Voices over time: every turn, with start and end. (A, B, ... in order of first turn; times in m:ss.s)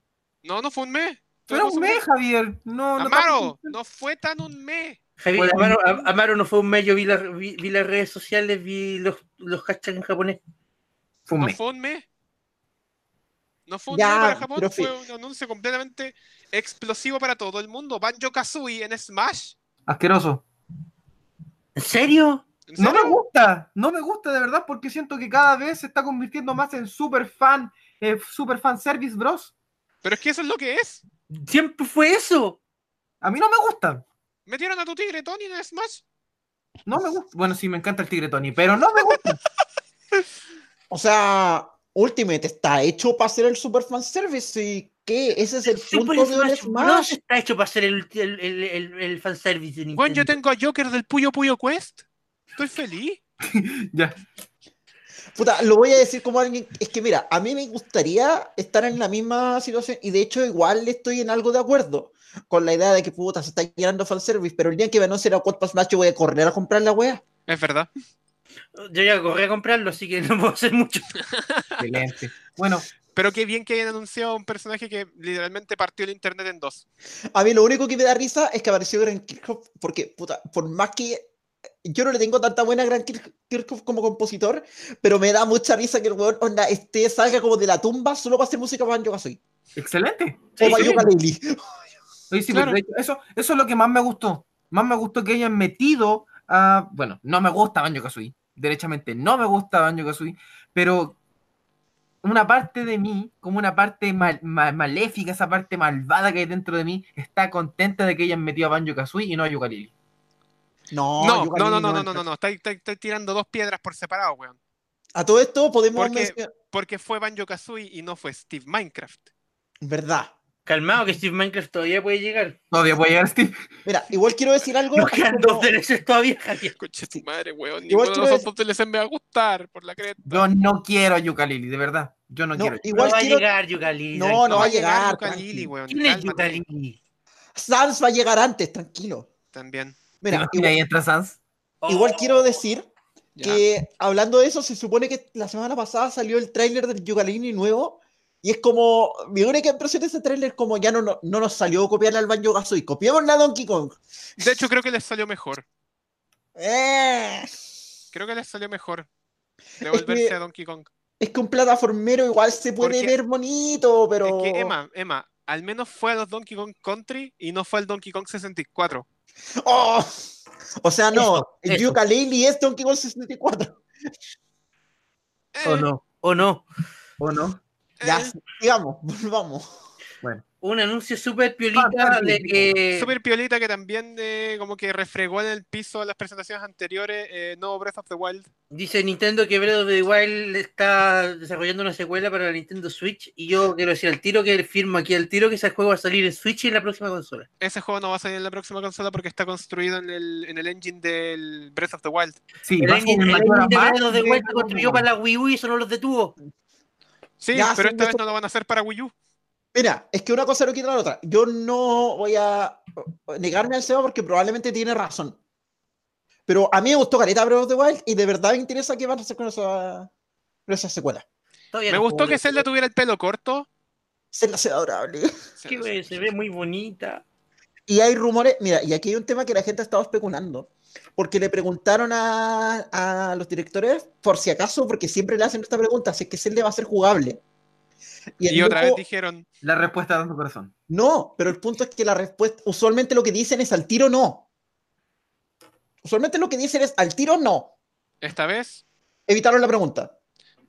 0:00.4-0:02.0 A
0:01.5-0:03.8 B
0:03.0-0:05.0 A
0:05.2-0:10.4 C
0:05.4-0:06.1 B
0:11.3-0:11.6 B
0:11.4-0:12.0 A
0:13.7-0:19.6 A
0:13.9-0:14.9 D
0:19.9-0:20.4 B
0:21.8-0:22.4 C
0:22.7-0:23.2 A
0:22.8-0:29.5 B
0:30.0-0:31.0 A
0:31.4-0:32.6 C
0:33.2-0:34.0 B
0:34.5-0:36.0 A
0:36.9-0:39.4 B
0:40.9-0:47.2 D
0:45.7-0:50.4 C
0:50.0-0:52.0 A
0:52.6-0:53.2 A
0:53.4-0:54.2 B
0:55.4-1:07.2 D
1:07.5-1:07.9 A
1:08.8-1:11.1 C
1:11.3-1:11.8 A
1:11.8-1:12.9 B
1:13.1-1:16.8 A
1:17.3-1:21.3 D
1:21.8-1:29.4 D
1:29.8-1:31.0 B
1:30.6-1:31.0 C
1:30.6-1:31.6 D
1:32.3-1:41.2 B
1:32.5-1:32.8 A
1:42.2-1:49.9 B
1:50.9-1:52.2 D
1:51.2-1:54.6 A
1:55.2-1:56.5 D
1:56.0-1:59.3 A
1:59.8-2:00.3 D
2:00.7-2:02.6 C
2:02.7-2:03.7 B
2:03.8-2:05.7 D
2:04.9-2:06.8 C
2:06.8-2:10.6 A
2:07.9-2:08.5 D
2:10.2-2:12.8 B
2:12.6-2:13.5 D
2:12.9-2:14.7 C
2:14.1-2:15.7 D
2:14.5-2:16.6 A
2:15.9-2:17.0 C
2:17.6-2:19.3 D
2:19.5-2:20.0 A
2:20.2-2:20.8 D
2:20.3-2:21.4 B
2:21.8-2:22.3 C
2:21.9-2:22.9 D
2:23.4-2:23.6 A
2:23.4-2:34.0 D
2:34.4-2:35.6 A
2:36.6-2:37.5 D
2:38.1-2:39.1 A
2:39.8-2:40.4 D
2:39.8-2:40.9 A
2:41.2-2:44.7 D
2:42.8-2:43.2 A
2:44.2-2:49.0 A
2:49.6-2:50.2 D
2:50.8-2:53.8 D
2:51.1-2:52.0 C
2:55.5-2:55.9 A
2:55.6-2:56.6 C
2:57.2-2:57.6 B
2:58.0-2:58.4 A
2:58.0-2:59.7 D
3:00.6-3:03.1 C
3:01.8-3:02.7 B
3:03.0-3:08.5 A
3:08.7-3:17.5 C
3:17.6-3:22.4 A
3:22.6-3:25.1 B
3:22.8-3:26.4 C
3:27.4-3:29.1 A
3:27.5-3:28.2 D
3:29.7-3:35.4 D
3:36.5-3:40.1 D
3:40.7-3:41.2 D
3:41.7-3:42.7 C
3:41.9-3:43.7 A
3:44.3-3:45.3 D
3:45.6-3:46.3 A
3:45.7-3:47.2 C
3:47.9-3:57.4 D
3:58.4-3:59.0 D
3:58.5-3:59.4 A
3:59.6-4:00.7 B
4:00.9-4:04.4 D
4:06.0-4:07.7 D
4:08.2-4:08.8 A
4:09.3-4:10.1 D